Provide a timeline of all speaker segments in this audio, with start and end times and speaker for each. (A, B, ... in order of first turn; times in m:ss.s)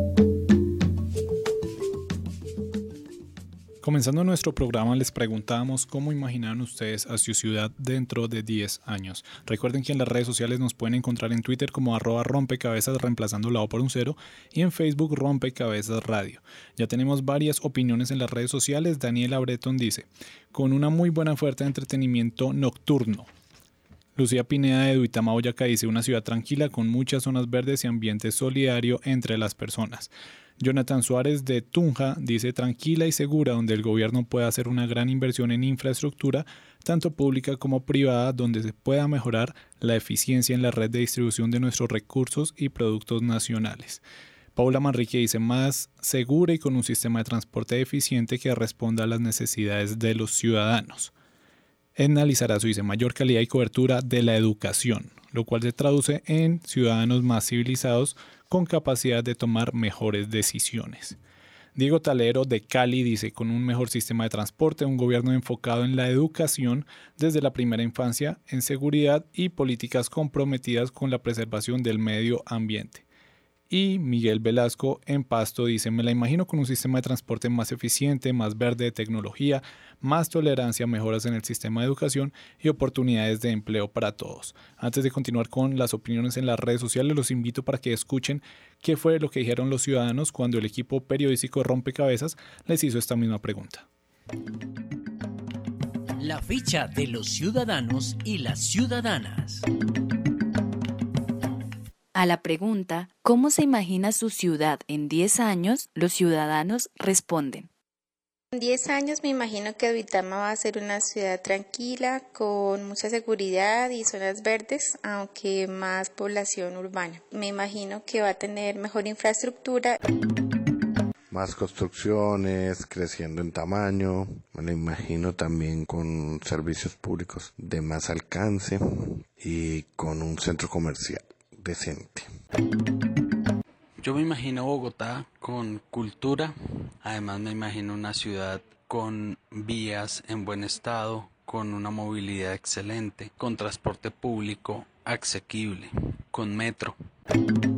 0:03.8-0:23.3 A
0:24.2-0:44.0 A
0:44.6-0:51.1 A
0:52.0-1:01.2 A
1:01.7-1:13.0 A
1:13.7-1:33.8 A
1:36.2-1:39.6 B
1:42.1-1:47.7 C
1:48.5-2:00.0 D
2:01.3-2:12.3 E
2:14.0-2:27.0 F